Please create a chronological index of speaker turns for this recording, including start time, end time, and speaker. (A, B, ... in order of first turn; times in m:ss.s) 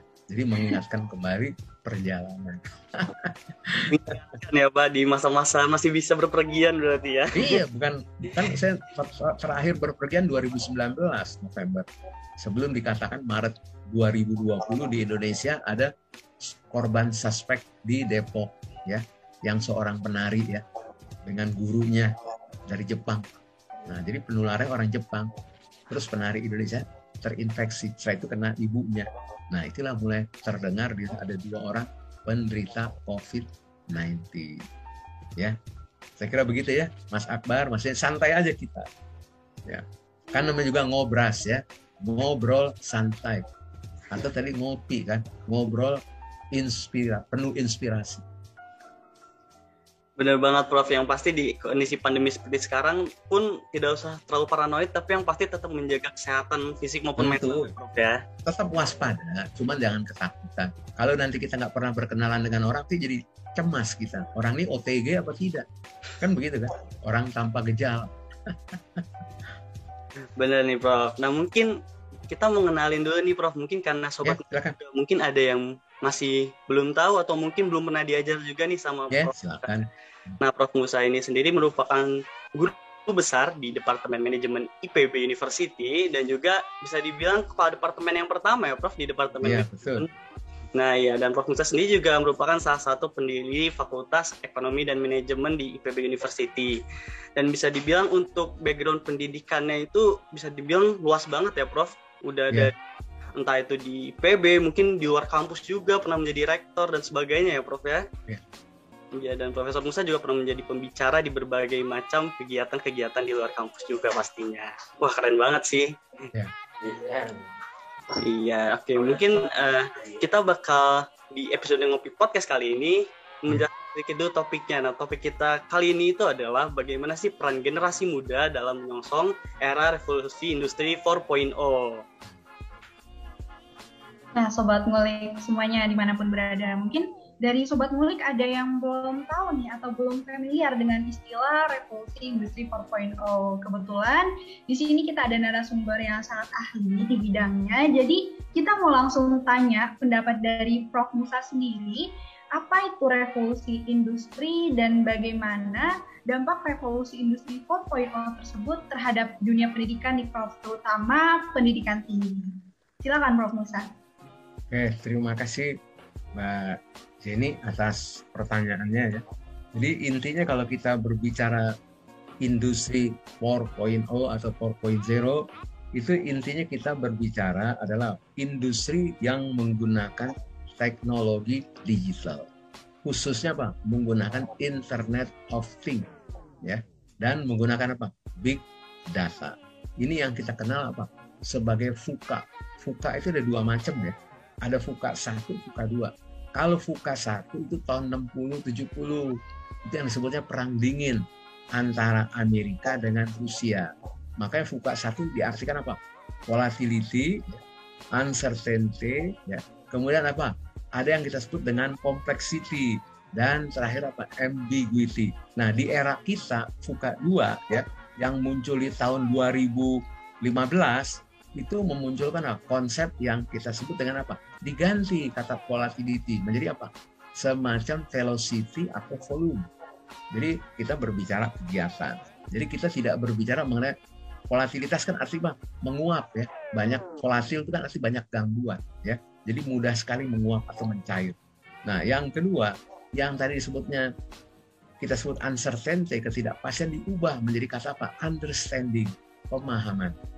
0:00.3-0:04.0 A
0:03.9-0:07.6 B
0:07.3-0:11.9 A
0:12.4-0:15.9 A
0:16.4-0:20.6 A
0:21.2-0:22.2 A
0:22.7-0:25.3 A
0:25.9-0:34.7 A
0:36.2-0:38.9 A
0:39.7-0:43.5 A
0:44.1-0:46.0 A
0:46.5-0:48.2 A
0:50.2-0:58.2 B
0:57.2-0:57.7 A
0:58.4-1:05.7 A
1:06.2-1:09.1 A
1:10.4-1:19.8 B
1:14.2-1:14.8 A
1:19.1-1:20.3 A
1:20.4-1:30.1 B
1:29.4-1:30.1 A
1:30.8-1:36.8 B
1:37.4-1:42.8 B
1:43.4-1:48.1 B
1:49.1-1:56.0 B
1:56.8-1:57.4 B
1:58.1-2:12.1 B
2:14.4-2:43.9 C
2:44.7-2:45.8 A
2:46.4-2:49.2 A
2:49.7-2:51.7 A
2:52.4-3:02.5 A
3:03.0-3:06.1 A
3:06.6-3:27.6 A
3:28.2-3:49.7 A
3:50.3-3:53.9 A
3:54.5-4:04.1 A
4:05.0-4:10.2 A